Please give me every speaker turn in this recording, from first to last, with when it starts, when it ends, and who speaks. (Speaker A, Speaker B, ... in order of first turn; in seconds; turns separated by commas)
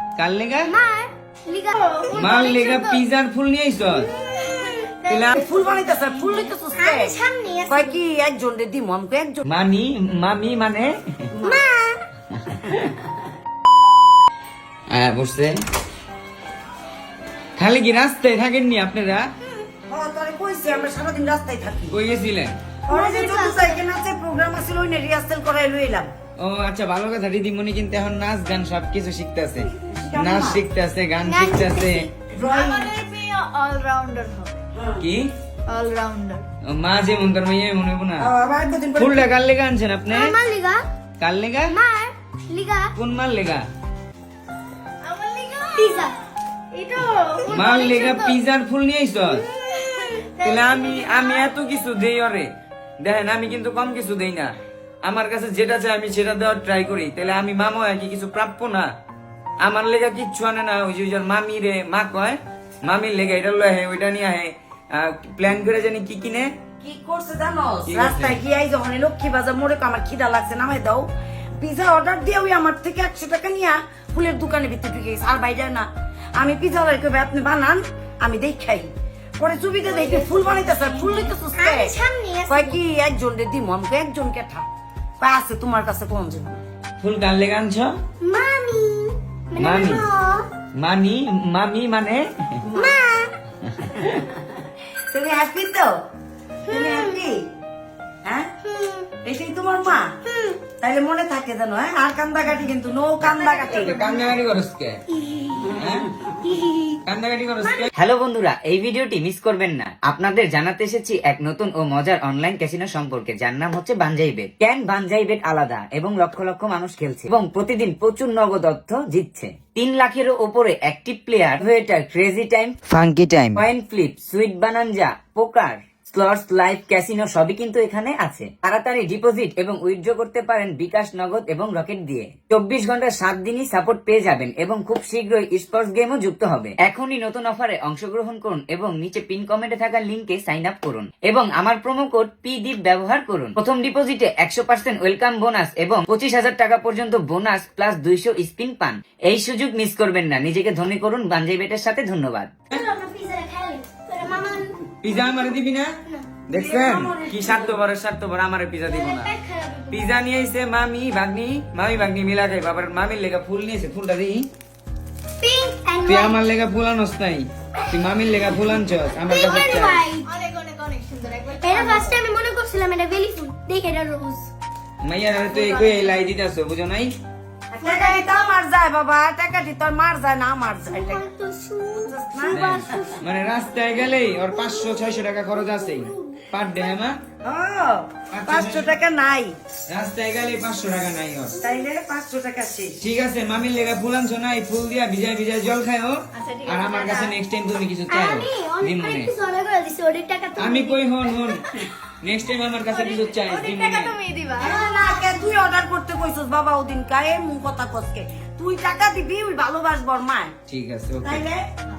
Speaker A: 0.2-0.7, Speaker B: 0.7-1.8, Speaker C: 1.7-2.6, Speaker A: 2.1-4.1, Speaker C: 4.1-6.5, Speaker A: 5.1-5.4, Speaker D: 5.1-9.4, Speaker B: 6.7-8.0, Speaker A: 9.5-10.9, Speaker D: 11.3-11.6, Speaker B: 11.5-11.9, Speaker A: 12.5-12.8, Speaker A: 14.9-15.6, Speaker A: 17.6-19.3, Speaker D: 19.9-22.0, Speaker A: 21.9-22.5, Speaker D: 22.9-26.1, Speaker B: 22.9-23.5, Speaker A: 26.4-32.1, Speaker D: 30.0-30.6, Speaker B: 31.3-31.9, Speaker D: 32.3-32.9, Speaker C: 32.4-34.6, Speaker D: 34.7-35.0, Speaker A: 35.0-35.3, Speaker C: 35.7-36.5, Speaker A: 36.7-38.3, Speaker D: 38.2-39.3, Speaker A: 39.0-40.3, Speaker B: 40.2-40.8, Speaker A: 41.2-41.8, Speaker B: 41.8-42.9, Speaker A: 43.0-43.6, Speaker C: 45.0-46.1, Speaker C: 46.7-48.4, Speaker A: 47.5-49.5, Speaker C: 49.5-51.4, Speaker A: 50.4-52.5, Speaker A: 53.0-54.5, Speaker A: 55.0-58.9, Speaker A: 59.6-66.5, Speaker D: 66.8-71.1, Speaker A: 67.9-68.4, Speaker D: 71.6-75.9, Speaker D: 76.4-81.9, Speaker C: 80.2-80.8, Speaker B: 81.6-82.8, Speaker D: 82.5-84.6, Speaker D: 85.2-86.6, Speaker A: 87.0-87.9, Speaker B: 88.2-90.4, Speaker A: 89.5-90.1, Speaker A: 90.8-92.6, Speaker D: 92.6-93.0, Speaker B: 92.8-93.3, Speaker D: 95.1-95.9, Speaker D: 96.7-97.4, Speaker B: 96.7-97.2, Speaker B: 98.7-99.0, Speaker D: 99.2-100.1, Speaker B: 100.3-100.6, Speaker D: 100.8-104.1, Speaker A: 103.6-105.0, Speaker A: 105.7-106.1, Speaker A: 107.0-107.9, Speaker E: 107.9-122.8, Speaker A: 122.9-123.7, Speaker E: 123.5-152.8, Speaker B: 152.7-154.7, Speaker A: 155.0-155.9, Speaker A: 156.5-159.3, Speaker D: 156.5-157.8, Speaker B: 159.0-159.9, Speaker A: 159.9-164.4, Speaker B: 165.4-166.3, Speaker A: 166.1-170.0, Speaker B: 169.3-170.2, Speaker C: 169.4-172.3, Speaker B: 171.6-174.5, Speaker A: 175.0-177.1, Speaker C: 175.5-176.2, Speaker D: 177.7-181.2, Speaker C: 177.8-178.6, Speaker B: 180.8-183.1, Speaker D: 181.9-183.2, Speaker A: 182.5-187.2, Speaker D: 187.4-189.5, Speaker A: 188.3-188.9, Speaker A: 189.9-191.6, Speaker D: 191.6-192.9, Speaker A: 193.0-199.3, Speaker C: 196.3-197.3, Speaker B: 198.1-201.0, Speaker A: 200.6-201.7, Speaker A: 202.2-204.2, Speaker C: 202.9-205.2, Speaker D: 204.6-210.5, Speaker A: 210.7-211.4, Speaker D: 211.2-211.7